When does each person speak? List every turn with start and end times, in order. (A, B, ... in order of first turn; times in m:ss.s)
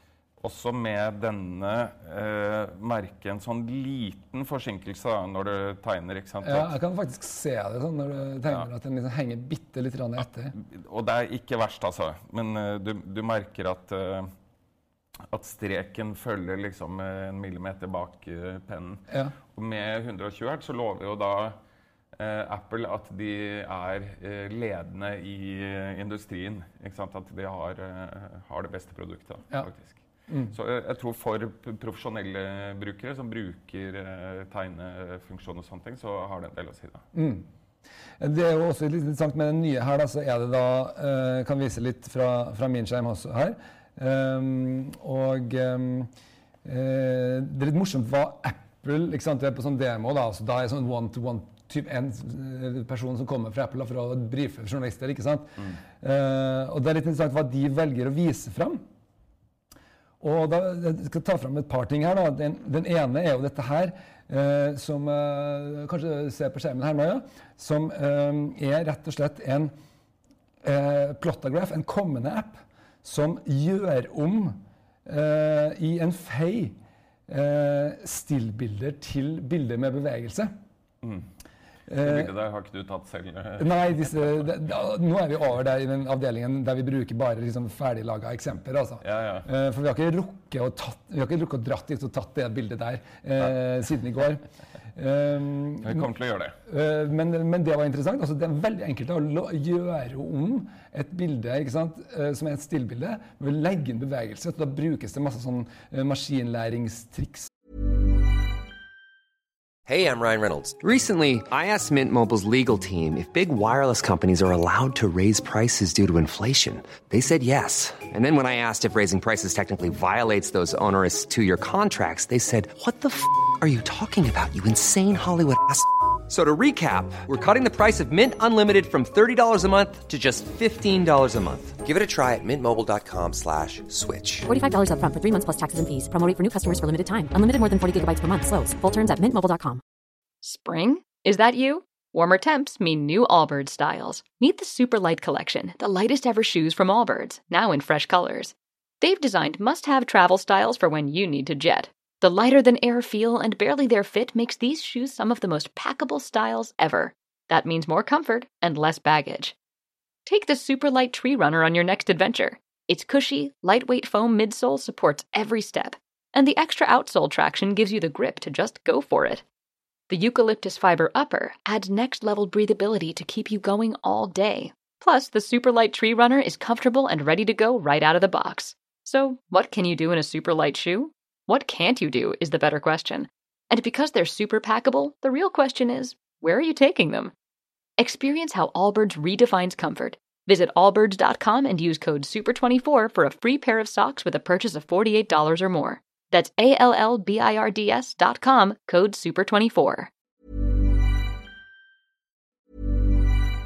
0:00.4-0:06.8 A
0:06.4-0:10.5 B
0:10.5-0:14.3 A
0:15.3-0:21.6 A
0:19.1-0:19.3 B
0:22.2-0:37.0 A
0:30.3-0:30.5 B
0:37.1-0:37.5 B
0:38.2-0:46.1 B
0:46.6-0:58.8 B
1:00.2-1:09.7 B
1:10.6-1:20.5 B
1:21.9-1:22.3 B
1:22.0-1:24.5 A
1:23.6-1:34.4 B
1:29.0-1:29.5 A
1:35.0-1:36.1 B
1:35.8-1:36.6 A
1:36.6-1:47.5 B
1:49.9-2:14.5 C
2:14.5-2:19.8 D
2:20.4-2:39.6 E
2:40.3-2:49.4 E
2:50.1-3:07.3 E
3:08.0-3:20.1 E